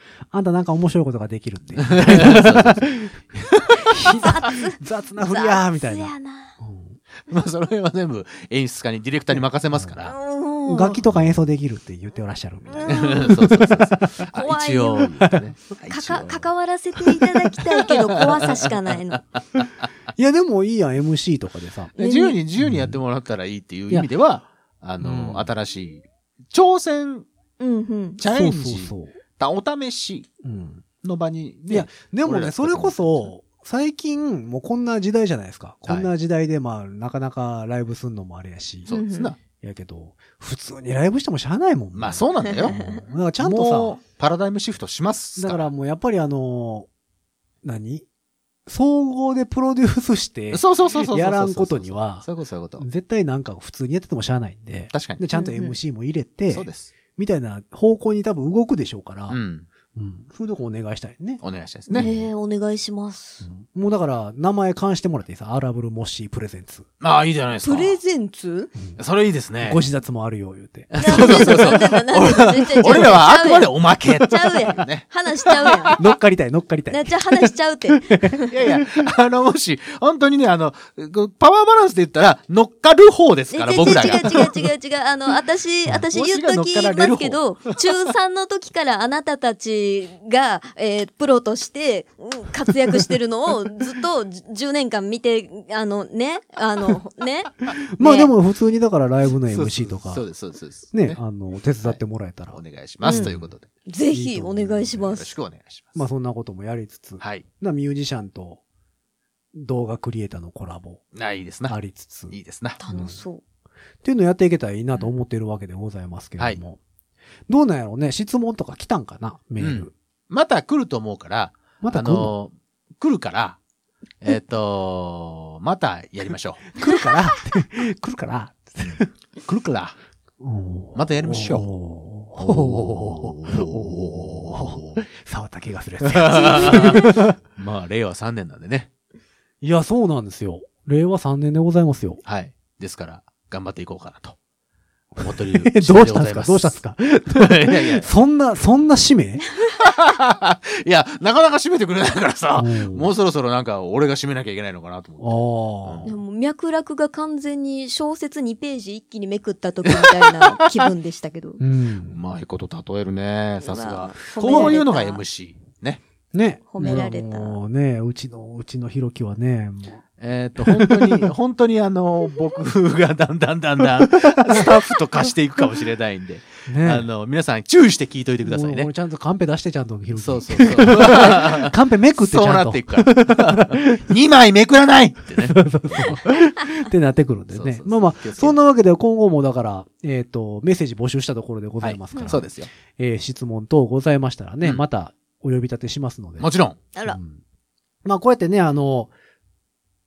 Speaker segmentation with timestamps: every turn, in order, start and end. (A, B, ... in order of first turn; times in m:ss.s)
0:00.3-0:07.0 A
0:01.8-0:02.9 B
0:04.2-0:06.5 C
0:07.3-0:10.1 B
0:09.3-0:10.0 A
0:10.0-0:11.0 C
0:10.6-0:14.0 A
0:12.7-0:13.3 C
0:12.8-0:16.5 B
0:14.3-0:15.1 C
0:15.9-0:19.2 C
0:17.0-0:18.7 B
0:19.4-0:19.7 B
0:20.1-0:21.9 A
0:21.9-0:27.3 B
0:22.0-0:22.4 C
0:22.6-0:23.0 A
0:25.0-0:25.5 A
0:27.6-0:28.2 C
0:28.2-0:30.3 B
0:28.2-0:29.1 A
0:30.4-0:30.8 A
0:31.0-0:33.3 B
0:31.7-0:38.9 A
0:35.8-0:36.1 B
0:38.8-0:39.4 B
0:38.9-0:39.3 C
0:39.6-0:44.0 A
0:41.9-0:45.7 B
0:45.4-0:46.9 A
0:47.6-0:48.0 A
0:48.6-0:52.2 A
0:50.5-0:52.8 B
0:52.8-0:59.4 A
0:54.9-0:55.2 B
0:55.3-0:55.7 C
0:56.5-0:56.9 B
0:59.3-0:59.7 B
0:59.9-1:01.4 A
1:01.4-1:02.1 B
1:01.9-1:03.5 C
1:01.9-1:02.2 A
1:03.4-1:06.8 A
1:07.0-1:08.0 B
1:07.6-1:08.7 C
1:09.0-1:09.8 B
1:09.6-1:11.7 A
1:10.9-1:15.9 B
1:11.0-1:16.0 C
1:15.9-1:17.5 A
1:16.9-1:18.5 C
1:18.0-1:19.0 A
1:18.5-1:24.5 B
1:23.5-1:38.3 C
1:26.1-1:27.8 B
1:37.9-1:40.2 A
1:39.5-1:41.2 B
1:40.9-1:43.5 A
1:41.8-1:43.7 B
1:43.0-1:43.3 C
1:43.8-1:45.3 C
1:44.1-1:45.0 A
1:44.9-1:46.0 B
1:45.9-1:48.6 A
1:47.2-1:47.4 B
1:49.5-1:51.0 A
1:51.1-1:51.8 B
1:51.7-1:52.4 A
1:52.3-1:52.8 B
1:52.8-1:53.4 C
1:52.9-1:53.2 A
1:54.0-1:56.8 A
1:57.5-1:59.9 A
1:59.6-2:03.6 B
2:01.8-2:02.3 A
2:04.2-2:06.8 B
2:06.7-2:09.1 A
2:09.4-2:10.0 B
2:10.4-2:17.3 A
2:10.9-2:11.7 B
2:12.4-2:15.0 B
2:16.0-2:18.9 B
2:19.6-2:22.2 A
2:22.2-2:24.4 B
2:25.2-2:26.8 B
2:25.2-2:29.4 A
2:27.3-2:28.1 B
2:29.8-2:36.1 B
2:32.6-2:33.1 A
2:35.2-2:36.1 A
2:36.0-2:41.6 C
2:39.9-2:40.9 B
2:41.6-2:42.2 A
2:42.1-2:46.0 B
2:43.6-2:45.2 C
2:44.4-2:44.8 A
2:46.3-2:50.0 A
2:46.7-2:47.6 C
2:50.2-2:58.9 B
2:50.6-2:51.3 A
2:54.0-2:54.7 A
2:56.7-2:57.0 A
2:58.4-3:04.1 A
3:00.1-3:06.3 B
3:05.4-3:16.5 A
3:07.5-3:08.6 B
3:11.8-3:12.7 B
3:16.4-3:16.8 B
3:17.0-3:17.4 A
3:18.0-3:19.1 A